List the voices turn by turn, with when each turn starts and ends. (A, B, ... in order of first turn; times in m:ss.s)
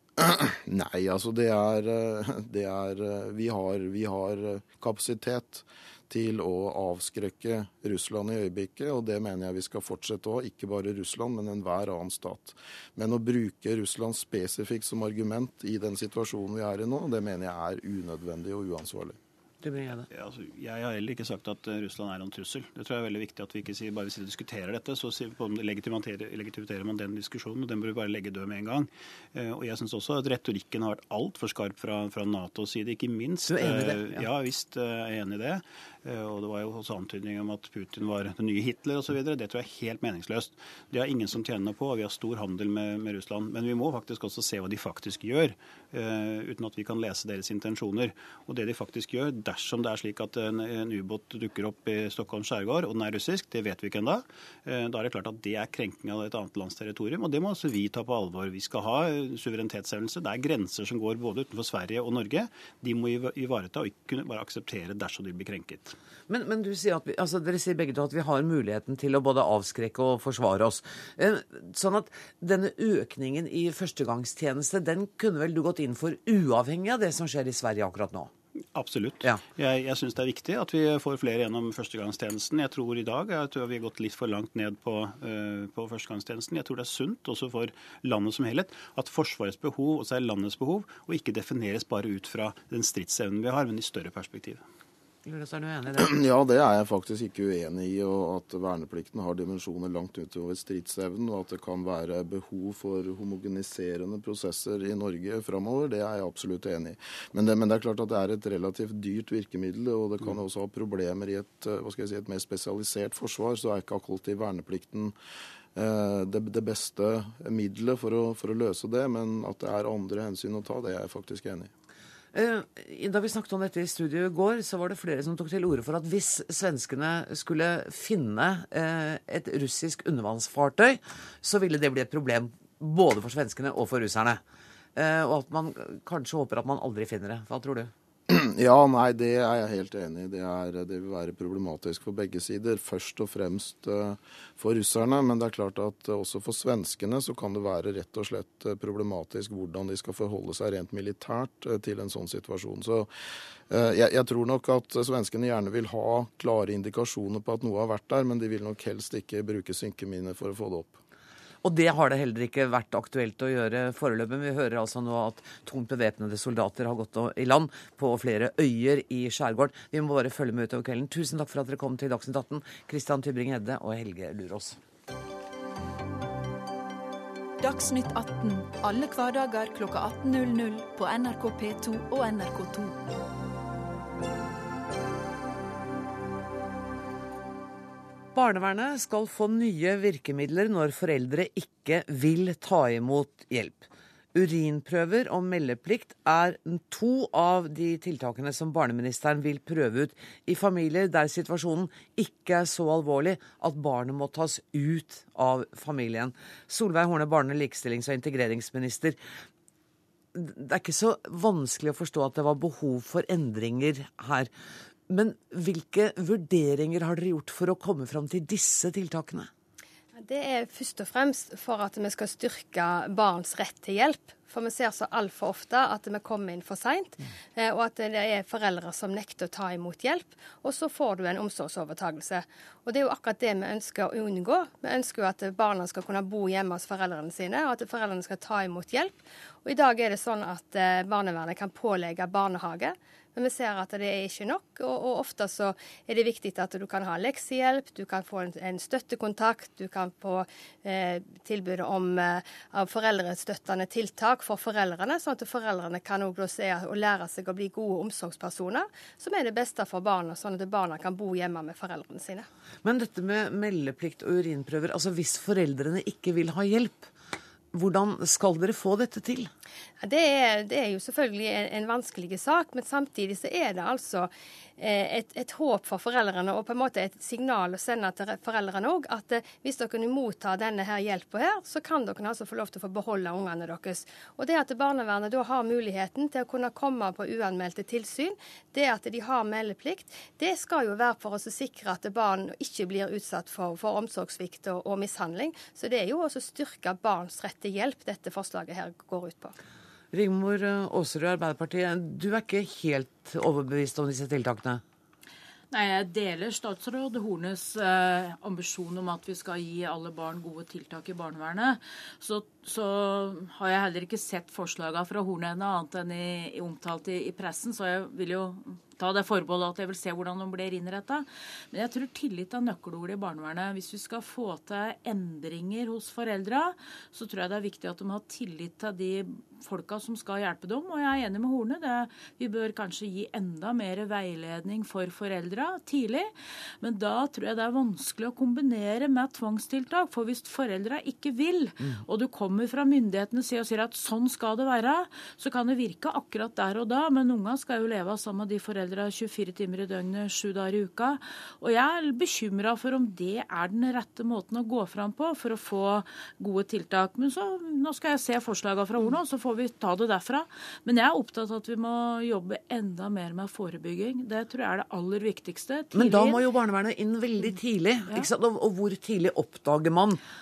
0:00.2-0:19.2 A
0:19.6-0:20.1 B
0:20.1-1:05.9 C
0:33.5-0:34.2 B
1:06.3-1:18.3 B
1:18.7-1:34.6 C
1:35.2-1:36.1 B
1:36.0-1:55.2 A
1:55.7-2:01.7 A
2:02.3-2:14.4 B
2:15.0-2:17.9 B
2:18.3-2:33.1 A
2:33.7-2:41.0 A
2:41.6-2:54.8 B
2:57.6-3:03.0 D
3:08.3-3:29.2 B
3:30.3-3:34.5 B
3:35.1-3:39.5 B
3:40.2-4:22.5 E
4:22.8-4:27.1 B
4:27.7-4:29.5 B
4:30.0-4:59.6 E
5:00.1-5:04.8 B
5:05.7-6:06.4 F
6:05.9-6:10.2 B